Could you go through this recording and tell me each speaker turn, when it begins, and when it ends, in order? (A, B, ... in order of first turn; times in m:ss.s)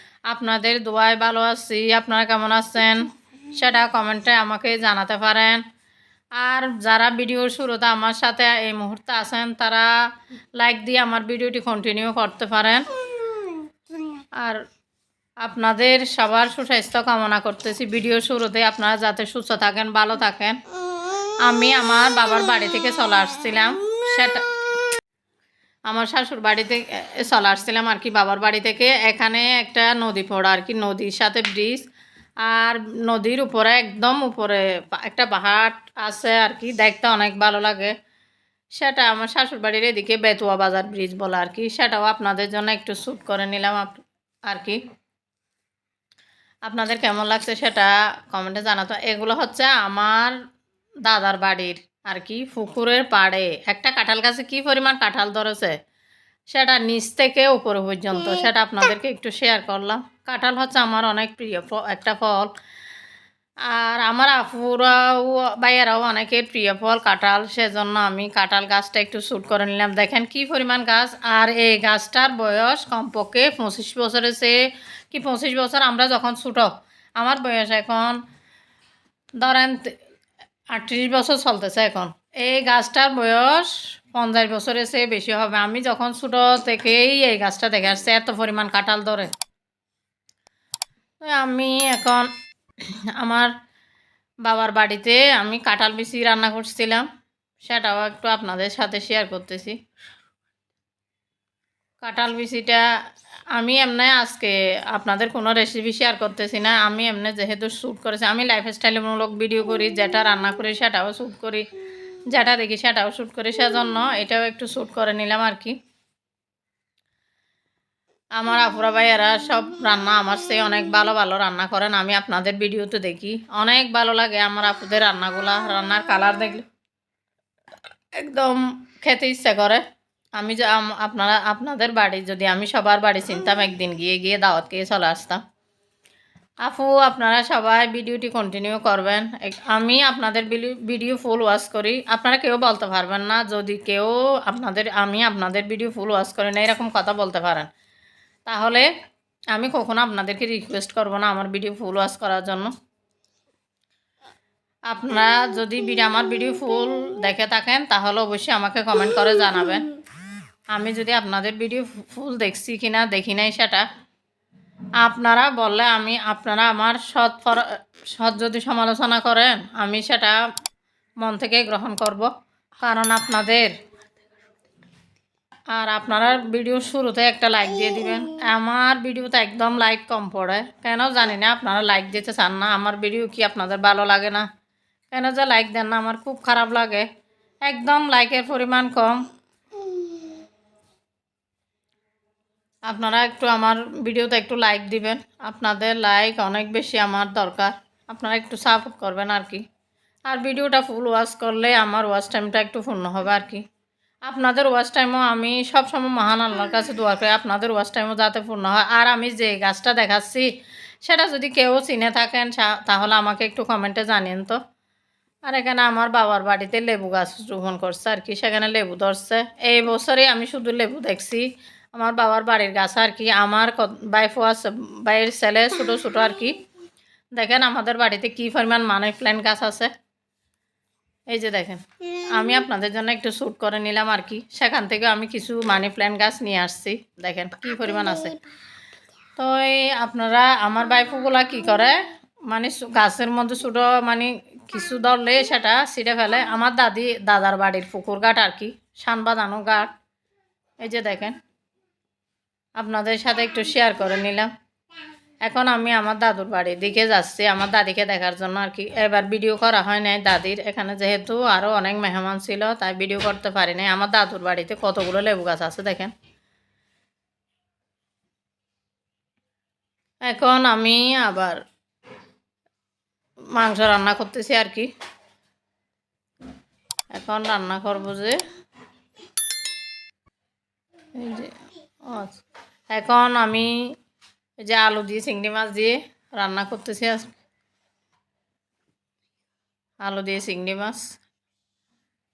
0:00.3-0:05.6 A
0:06.4-0:09.9 A
0:10.6-0:12.9 A
0:15.4-0:20.6 A
0:21.4-0:24.4 A
0:25.9-0:31.8 A
0:32.4-0:37.9 A
0:38.8-0:44.8 A
0:46.6-0:50.4 A
0:51.0-0:55.8 A
0:56.5-1:02.5 A
1:03.6-1:14.6 A
1:15.1-1:18.2 A
1:19.4-1:19.9 A
1:20.7-1:29.3 A
1:31.2-1:32.3 A
1:33.2-1:33.5 A
1:34.4-1:37.0 A
1:37.6-1:39.8 A
1:42.0-1:42.8 A
1:43.5-1:51.7 A
1:52.3-1:55.8 A
1:58.4-2:06.6 A
2:08.2-2:09.8 A
2:10.4-2:15.4 A
2:16.6-2:27.7 A
2:28.5-2:28.9 A
2:29.5-2:32.7 A
2:34.9-2:39.9 A
2:40.7-2:43.8 A
2:45.0-2:50.4 A
2:51.2-2:52.3 A
2:52.8-2:53.7 A
2:55.7-3:04.5 A
3:05.1-3:07.1 A
3:07.6-3:09.2 A
3:12.9-3:19.6 A
3:20.3-3:23.6 A
3:24.2-3:30.5 A
3:31.0-3:34.6 A
3:35.4-3:46.6 A
3:47.3-3:49.9 A
3:51.3-3:58.4 A
3:59.4-4:09.9 A
4:10.8-4:11.4 A
4:12.8-4:14.5 A
4:15.4-4:26.1 A
4:30.2-4:31.6 A
4:33.5-4:34.9 A
4:37.1-4:38.4 A
4:41.2-4:41.5 A
4:42.0-4:42.4 A
4:42.9-4:43.9 A
4:44.6-4:47.3 A
4:50.0-4:51.1 A